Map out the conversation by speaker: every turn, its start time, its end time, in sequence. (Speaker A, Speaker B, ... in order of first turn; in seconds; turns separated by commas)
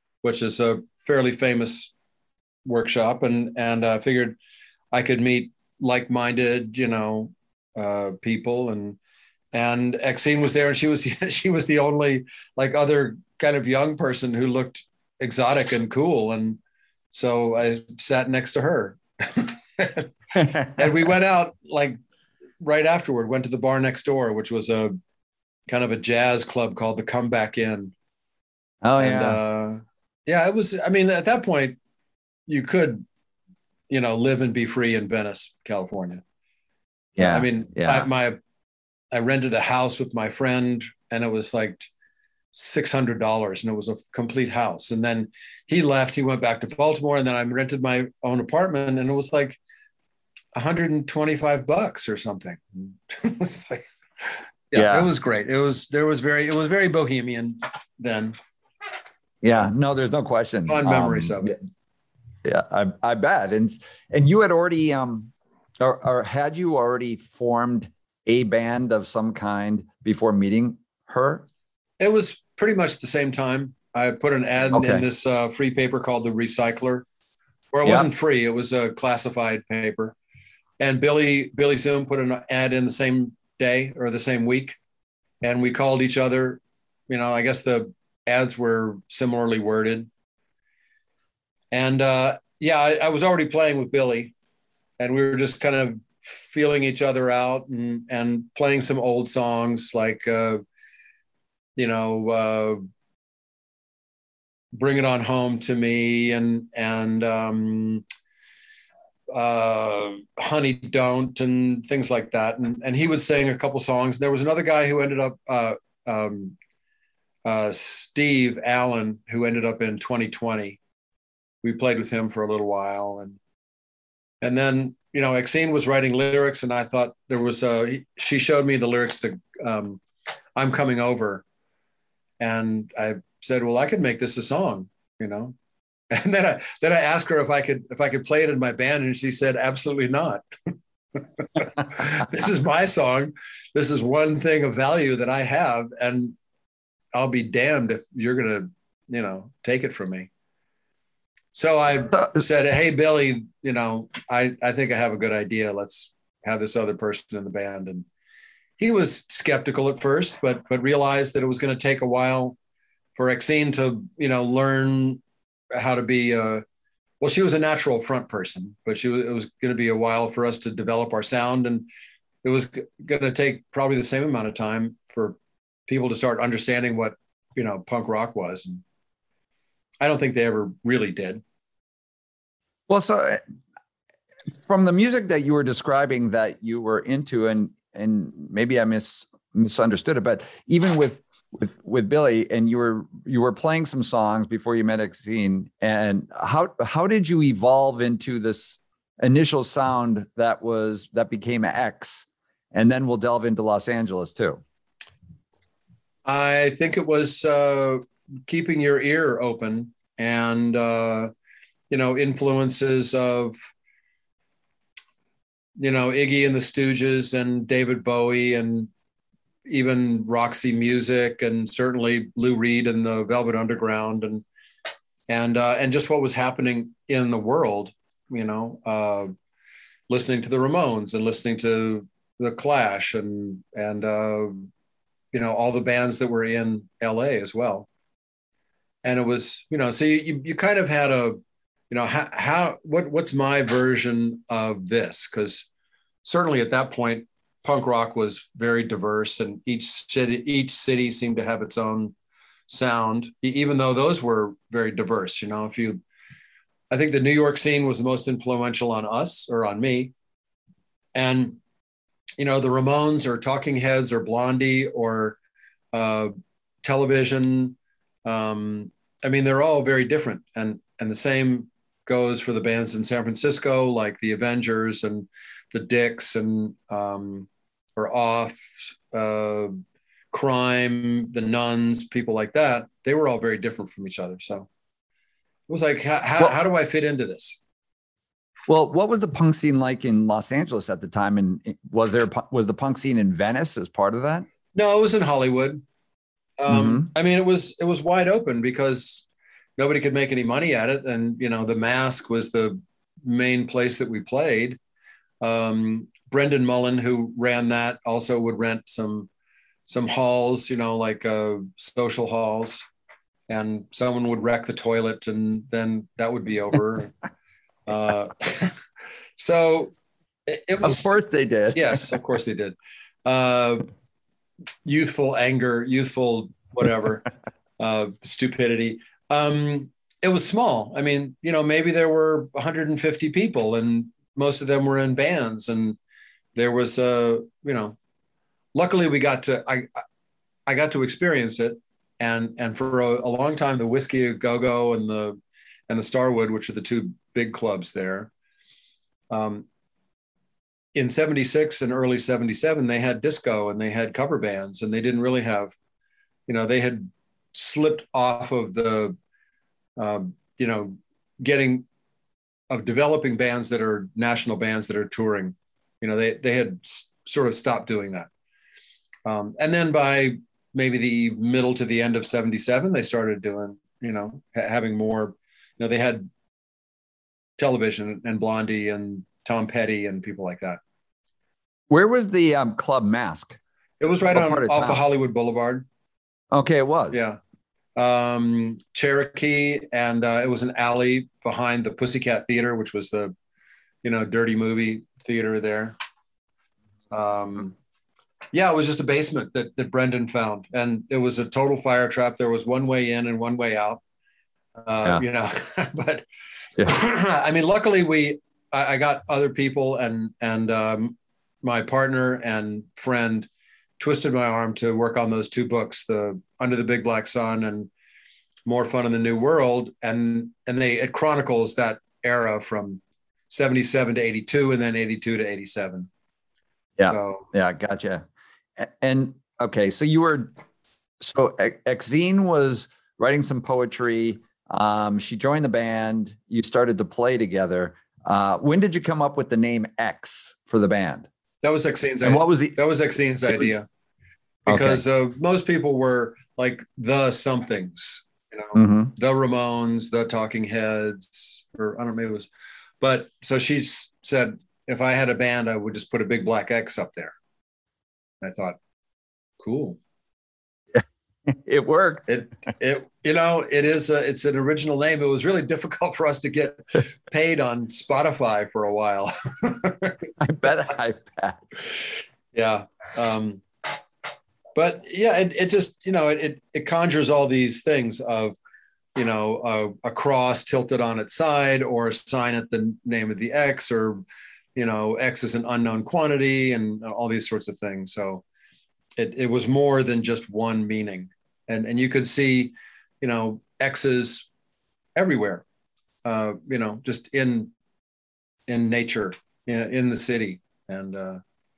Speaker A: 0.2-1.9, Speaker A: 2.6-4.4, Speaker A: 4.9-9.0, Speaker A: 9.5-16.6, Speaker A: 17.1-20.1, Speaker B: 20.4-20.8, Speaker A: 20.7-22.0, Speaker A: 22.6-25.0, Speaker A: 25.7-27.9, Speaker B: 28.8-29.4, Speaker A: 29.0-31.8, Speaker A: 32.5-33.0, Speaker A: 33.9-36.2, Speaker B: 37.2-38.1, Speaker A: 37.2-38.4, Speaker A: 39.1-41.9, Speaker A: 42.5-49.6, Speaker A: 50.5-53.8, Speaker A: 54.7-58.3, Speaker B: 54.7-55.1, Speaker B: 59.4-61.5, Speaker A: 60.7-61.6, Speaker B: 62.4-71.5, Speaker A: 72.0-77.0, Speaker B: 74.7-75.0, Speaker A: 77.7-80.1, Speaker A: 80.8-84.8, Speaker A: 85.4-90.1, Speaker A: 91.7-94.3, Speaker A: 95.0-100.6, Speaker A: 101.8-102.8, Speaker A: 104.7-108.0, Speaker A: 109.3-116.5, Speaker A: 117.4-120.8, Speaker A: 121.6-123.4, Speaker A: 124.4-130.0, Speaker A: 130.6-131.4, Speaker A: 132.4-135.6, Speaker A: 136.1-140.4, Speaker A: 141.4-146.3, Speaker A: 147.1-150.3, Speaker A: 151.5-158.1, Speaker A: 158.8-162.6, Speaker A: 163.2-165.2, Speaker A: 165.7-166.6, Speaker A: 167.2-171.9, Speaker A: 172.4-175.4, Speaker A: 175.9-178.8, Speaker A: 180.0-181.4, Speaker B: 182.9-183.4, Speaker B: 184.7-204.6, Speaker A: 206.2-211.3, Speaker A: 211.9-213.6, Speaker A: 215.8-218.9, Speaker A: 219.7-224.4, Speaker A: 225.3-229.3, Speaker A: 230.1-234.7, Speaker A: 235.3-237.9, Speaker A: 239.0-241.4, Speaker A: 241.9-245.7, Speaker A: 246.2-252.1, Speaker A: 252.7-256.0, Speaker A: 256.9-260.1, Speaker A: 261.1-261.6, Speaker A: 262.4-265.4, Speaker A: 265.9-279.8, Speaker A: 280.3-284.7, Speaker A: 285.7-287.6, Speaker B: 288.7-294.5, Speaker A: 294.7-295.8, Speaker A: 296.6-299.2, Speaker B: 296.7-297.1, Speaker A: 299.8-304.8, Speaker A: 305.4-309.3, Speaker A: 309.9-312.8, Speaker A: 313.5-317.1, Speaker A: 317.9-318.8, Speaker A: 319.4-319.9, Speaker A: 320.5-321.0, Speaker B: 320.8-322.0, Speaker A: 321.7-323.9, Speaker A: 324.8-327.2, Speaker A: 327.8-336.0, Speaker A: 336.5-338.0, Speaker A: 338.7-339.9, Speaker A: 340.7-348.3, Speaker A: 349.3-349.6, Speaker A: 350.9-355.7, Speaker A: 356.5-359.2, Speaker A: 360.0-361.8, Speaker A: 362.7-368.3, Speaker A: 369.2-376.3, Speaker A: 377.6-380.8, Speaker B: 381.9-383.6, Speaker A: 384.0-385.9, Speaker B: 384.3-385.0, Speaker B: 386.5-387.2, Speaker A: 387.1-387.4, Speaker A: 387.9-393.3, Speaker A: 394.0-395.9, Speaker A: 397.1-397.8, Speaker A: 398.5-404.0, Speaker A: 404.8-406.2, Speaker A: 406.9-417.9, Speaker A: 418.6-426.1, Speaker B: 427.0-428.2, Speaker A: 427.1-427.4, Speaker B: 428.8-430.5, Speaker B: 431.2-441.3, Speaker A: 441.6-443.9, Speaker B: 442.2-442.8, Speaker A: 444.6-452.5, Speaker B: 444.7-445.0, Speaker B: 448.8-449.1, Speaker A: 453.0-457.3, Speaker A: 458.4-458.8, Speaker A: 459.6-460.0, Speaker B: 460.9-462.3, Speaker A: 462.3-470.8, Speaker B: 470.4-471.7, Speaker A: 472.5-473.6, Speaker A: 474.8-478.6, Speaker A: 479.1-484.2, Speaker A: 484.8-488.4, Speaker A: 489.2-494.5, Speaker A: 495.1-495.6, Speaker A: 496.2-497.7, Speaker A: 498.7-501.4